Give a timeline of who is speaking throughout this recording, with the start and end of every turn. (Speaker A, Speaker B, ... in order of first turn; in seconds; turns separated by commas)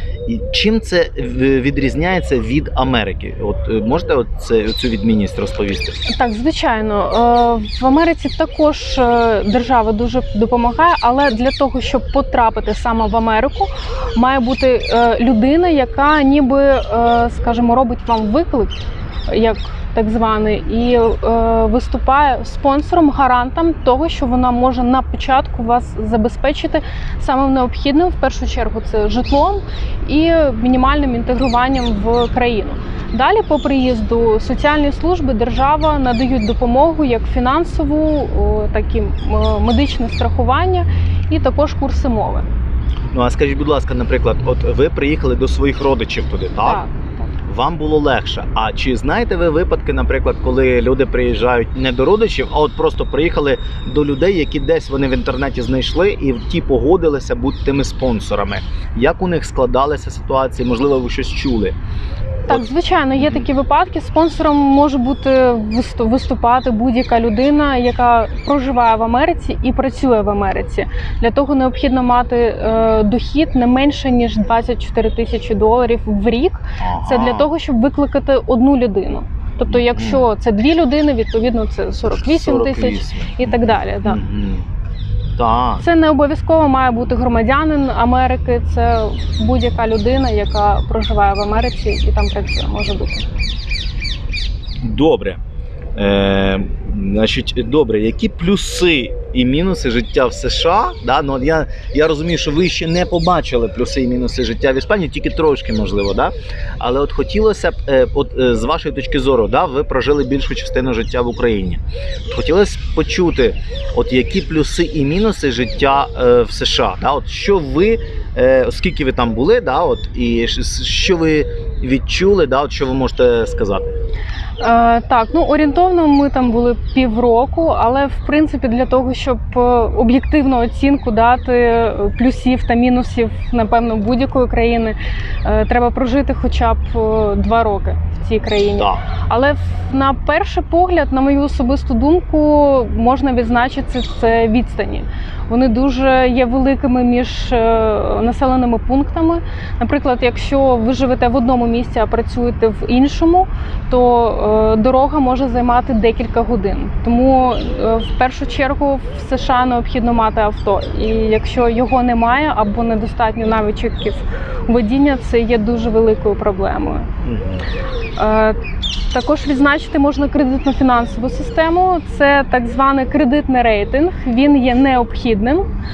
Speaker A: 0.3-6.0, Speaker B: 6.1-18.8, Speaker B: 19.3-42.5, Speaker A: 43.1-46.8, Speaker B: 46.6-47.1, Speaker A: 47.5-61.8, Speaker B: 62.5-84.2, Speaker A: 63.2-63.4, Speaker A: 76.8-77.5, Speaker A: 79.7-80.3, Speaker A: 82.1-84.7, Speaker A: 85.4-85.8, Speaker B: 85.8-93.3, Speaker A: 94.8-95.4, Speaker A: 96.0-123.9, Speaker B: 124.6-167.1, Speaker A: 138.7-139.0, Speaker A: 167.2-167.7, Speaker B: 168.2-168.6, Speaker B: 169.1-175.7